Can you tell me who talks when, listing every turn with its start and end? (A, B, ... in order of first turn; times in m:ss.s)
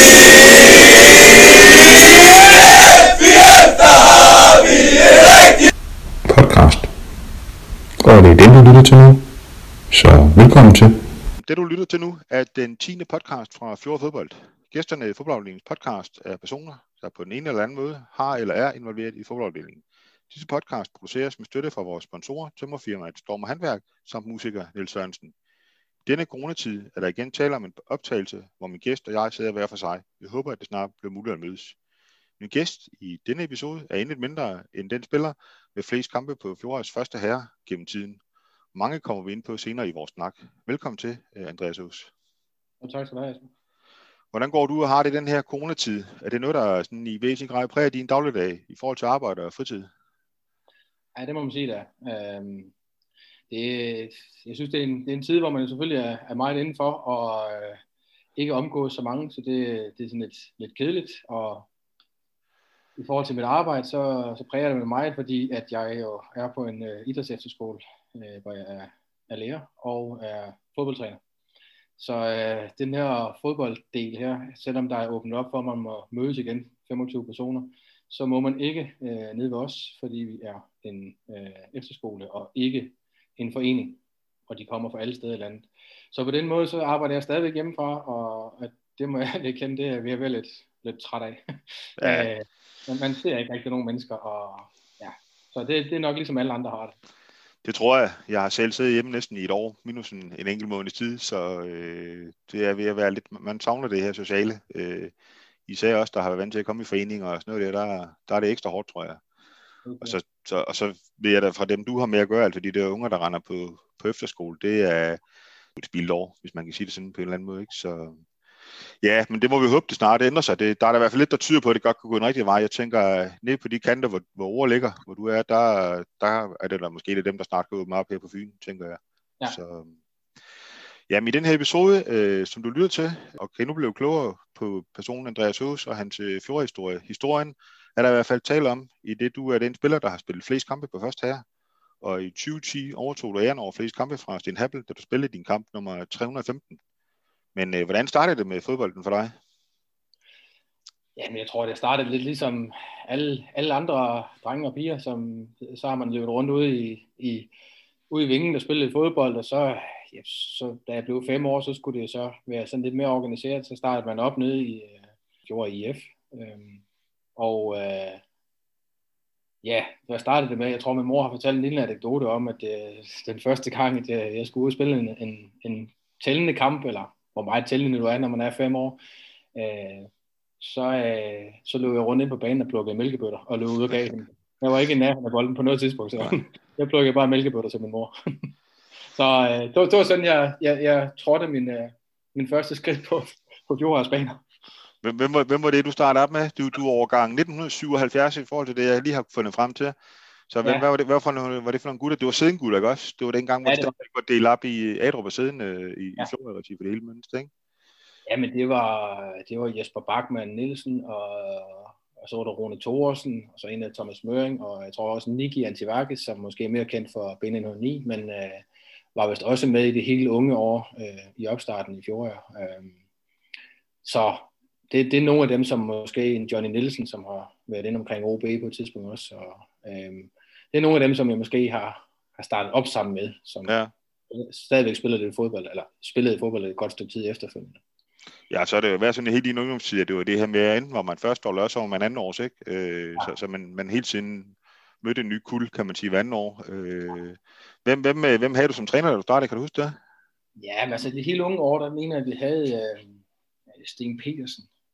0:06.3-0:06.9 A
0:08.0-0:09.2 A
0:09.9-0:11.0 A
0:11.4-0:25.3 B
0:26.1-0:31.8 B
0:32.4-0:38.2 B
0:38.7-0:42.1 B
0:42.8-0:43.5 C
0:44.3-0:49.9 B
0:51.2-0:52.7 C
0:53.5-0:57.8 C
0:58.4-1:01.7 C
1:03.0-1:11.2 C
1:12.0-1:37.0 C
1:32.0-1:32.3 B
1:37.6-1:45.1 B
1:45.7-1:49.2 B
1:49.8-1:50.2 C
1:50.0-1:55.2 B
1:55.8-1:58.2 B
1:59.0-2:10.0 B
2:11.1-2:21.4 B
2:22.0-2:26.8 B
2:27.6-2:29.4 B
2:31.2-2:37.5 C
2:38.1-2:46.8 C
2:47.4-2:48.2 C
2:49.6-2:59.0 C
2:59.6-3:00.1 C
3:00.6-3:08.1 C
3:09.1-3:14.4 C
3:15.0-3:20.0 B
3:20.5-3:27.5 B
3:23.6-3:23.9 C
3:28.3-3:43.0 C
3:44.0-3:53.8 C
3:54.3-3:57.8 C
3:58.5-4:10.0 B
4:10.6-4:14.7 C